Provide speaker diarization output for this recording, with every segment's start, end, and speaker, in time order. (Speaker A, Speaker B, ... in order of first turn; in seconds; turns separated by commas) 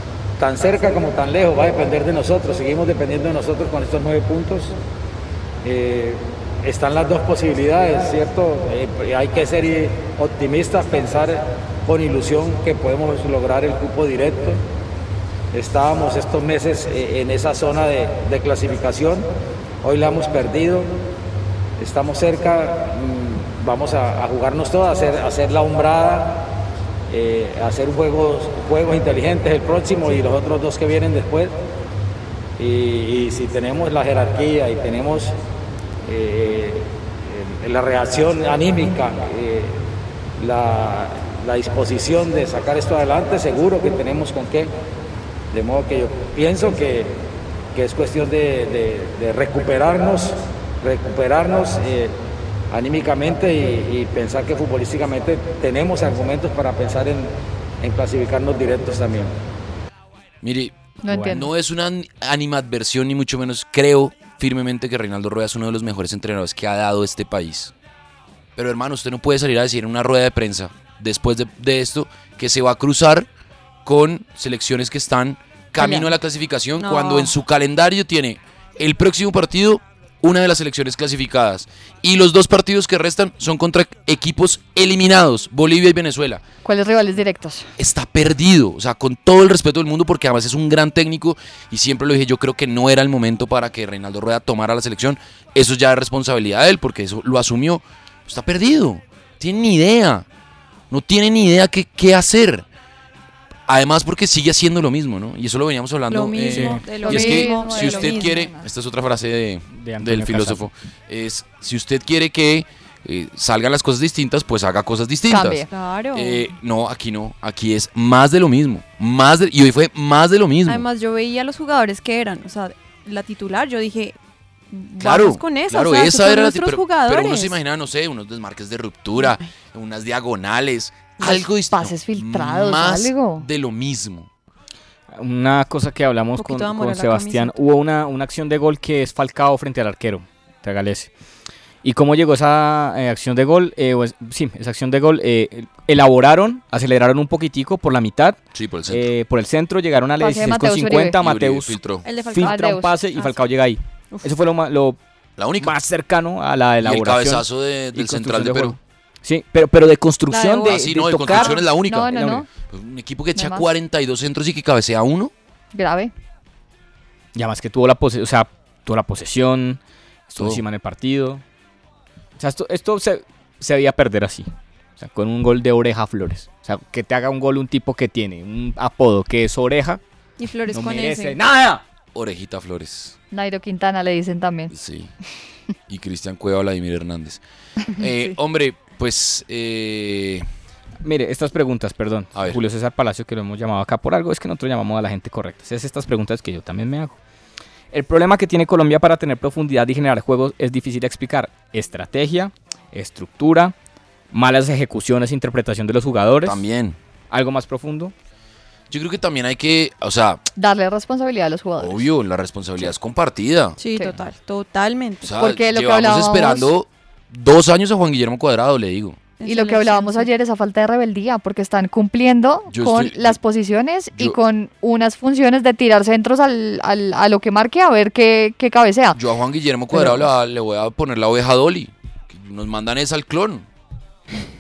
Speaker A: 0.4-4.7, Speaker A: 5.6-14.6, Speaker A: 15.5-19.3, Speaker A: 19.8-20.9, Speaker A: 21.8-26.4, Speaker A: 27.1-31.5, Speaker A: 32.6-35.4, Speaker A: 36.0-39.8, Speaker A: 40.4-44.7, Speaker A: 45.5-47.2, Speaker A: 47.7-52.1, Speaker A: 52.7-59.3, Speaker B: 60.4-67.7, Speaker C: 61.0-61.5, Speaker D: 61.1-61.4, Speaker B: 68.6-73.3, Speaker B: 73.8-86.4, Speaker C: 75.8-76.1, Speaker E: 76.8-77.3, Speaker C: 86.7-87.7, Speaker B: 87.8-100.3, Speaker B: 100.9-102.7, Speaker B: 103.7-115.6, Speaker E: 106.1-108.5, Speaker D: 106.5-106.8, Speaker C: 107.0-108.7, Speaker D: 109.7-110.7, Speaker C: 115.3-115.7, Speaker E: 115.7-116.5, Speaker B: 116.1-120.9, Speaker E: 120.7-124.2, Speaker E: 124.7-127.6, Speaker B: 125.0-134.3, Speaker C: 131.2-133.5, Speaker D: 135.1-141.1, Speaker E: 136.4-137.6, Speaker D: 141.8-151.8, Speaker B: 148.5-149.1, Speaker C: 150.2-151.2, Speaker B: 151.2-152.1, Speaker E: 152.0-153.4, Speaker D: 152.3-155.0, Speaker C: 152.4-153.0, Speaker B: 155.4-155.8, Speaker D: 155.6-162.4, Speaker B: 156.8-158.8, Speaker E: 160.3-161.7, Speaker B: 160.6-165.3, Speaker C: 161.8-162.5, Speaker C: 163.3-163.7, Speaker C: 165.7-166.1, Speaker D: 167.3-171.4, Speaker B: 170.4-170.6, Speaker D: 172.4-180.0, Speaker E: 180.4-181.4, Speaker D: 180.7-181.8, Speaker B: 182.1-183.2, Speaker C: 183.3-184.7, Speaker B: 184.7-185.1, Speaker B: 185.9-187.4, Speaker B: 187.9-190.5, Speaker D: 191.0-197.2, Speaker D: 197.9-203.7, Speaker D: 204.3-206.6, Speaker B: 206.4-207.0, Speaker D: 207.3-208.1, Speaker B: 208.9-210.4, Speaker C: 210.6-212.1, Speaker B: 211.8-213.8, Speaker E: 213.8-215.3, Speaker B: 215.2-219.2, Speaker C: 215.3-216.7, Speaker E: 219.4-220.3, Speaker C: 219.4-229.2, Speaker B: 222.7-223.4, Speaker B: 229.2-233.7, Speaker C: 229.9-230.2